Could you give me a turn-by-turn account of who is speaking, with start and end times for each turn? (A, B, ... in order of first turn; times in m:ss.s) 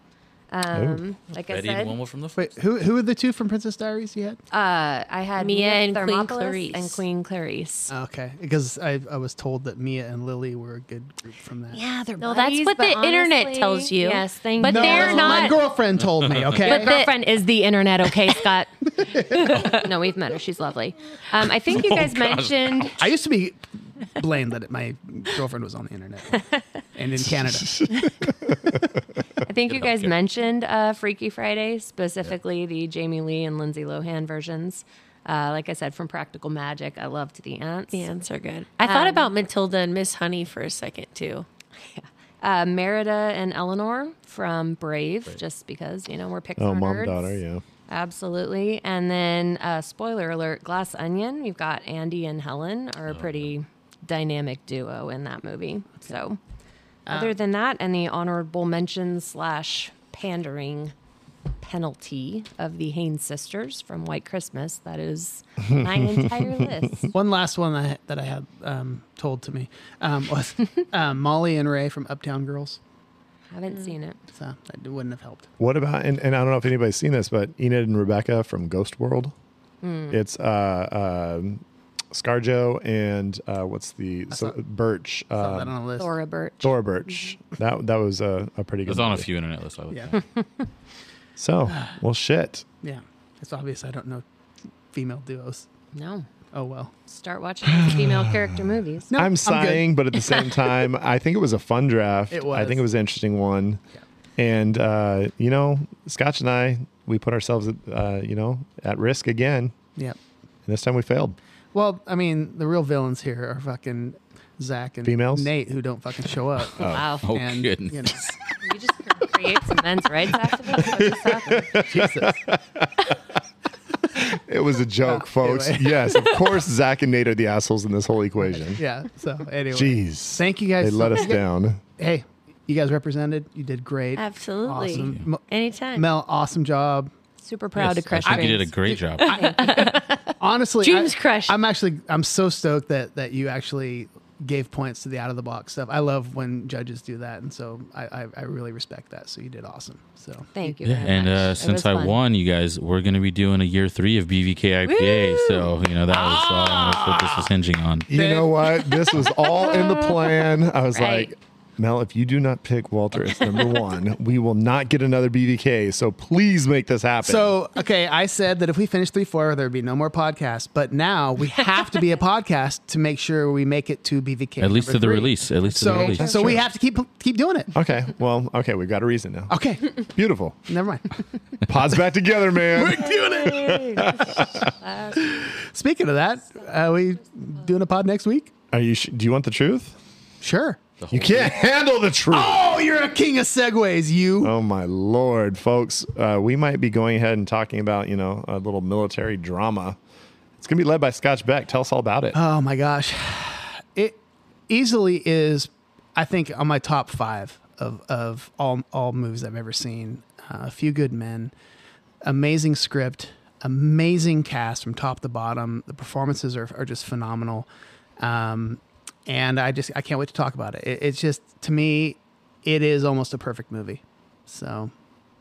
0:00.5-0:02.0 A
0:00.7-0:01.0 B
0:01.5-0:02.6 C
0:02.4-0:04.4 D
0:04.5-0:07.9 A
0:05.4-0:07.0 E
0:07.9-0:11.8 D
0:11.7-0:15.6 A
0:12.2-0:15.6 E
0:14.6-0:17.3 D
0:16.2-0:16.8 C
0:16.6-0:23.1 A
0:19.1-0:19.7 D
0:19.5-0:19.9 C
0:21.7-0:23.0 C
0:23.0-0:23.6 D
0:24.1-0:26.4 D
0:26.9-0:27.9 D
0:27.7-0:28.8 B
0:29.4-0:38.1 A
0:29.7-0:30.1 C
0:37.9-0:41.4 E
0:38.8-0:39.3 A
0:41.8-0:56.4 A
0:46.6-0:47.6 B
0:53.1-0:53.3 C
0:57.0-0:57.4 D
0:57.1-1:00.9 A
1:01.6-1:07.1 A
1:05.6-1:07.1 B
1:07.1-1:12.8 D
1:13.5-1:14.2 A
1:14.3-1:15.5 D
1:15.6-1:19.3 B
1:19.8-1:20.2 A
1:20.1-1:25.7 B
1:25.4-1:26.1 D
1:26.0-1:27.3 A
1:26.6-1:29.3 B
1:28.9-1:30.2 C
1:29.9-1:30.2 D
1:30.1-1:30.6 A
1:31.4-1:32.6 B
1:32.8-1:34.2 D
1:34.9-1:35.6 D
1:35.9-1:36.3 A
1:36.5-1:36.9 D
1:37.1-1:39.1 A
1:37.6-1:43.8 B
1:39.1-1:39.9 D
1:40.1-1:40.6 A
1:42.3-1:42.8 D
1:44.4-1:49.7 B
1:50.6-1:51.4 B
1:51.7-1:58.3 D
1:55.0-1:55.5 B
1:56.6-1:57.1 B
1:56.8-1:57.3 A
1:57.2-1:58.4 C
1:58.6-2:01.8 A
2:00.8-2:03.1 B
2:01.0-2:02.4 D
2:04.1-2:08.8 B
2:05.0-2:06.0 D
2:08.4-2:11.5 D
2:09.7-2:11.8 B
2:12.0-2:15.4 D
2:14.2-2:16.1 E
2:14.9-2:15.2 C
2:15.9-2:17.1 D
2:17.4-2:18.8 A
2:17.7-2:19.3 C
2:18.2-2:30.7 D
2:19.3-2:19.9 E
2:19.3-2:20.4 A
2:20.8-2:21.6 E
2:30.5-2:32.2 A
2:30.8-2:38.1 C
2:34.9-2:35.7 A
2:36.1-2:37.5 D
2:38.1-2:47.6 B
2:38.1-2:39.1 D
2:39.6-2:40.1 A
2:40.9-2:41.3 A
2:47.2-2:57.7 D
2:54.6-2:56.6 C
2:55.9-2:56.6 A
2:57.7-3:00.7 B
2:59.5-3:00.0 D
3:00.7-3:01.2 D
3:01.6-3:04.7 B
3:02.7-3:04.4 D
3:03.0-3:05.4 A
3:05.2-3:08.5 D
3:08.7-3:10.0 B
3:10.4-3:10.8 D
3:11.0-3:11.6 C
3:11.1-3:12.7 B
3:12.3-3:14.5 D
3:14.4-3:20.0 B
3:20.6-3:22.4 B
3:22.3-3:24.2 D
3:24.7-3:31.5 D
3:32.2-3:37.7 D
3:38.2-3:44.9 D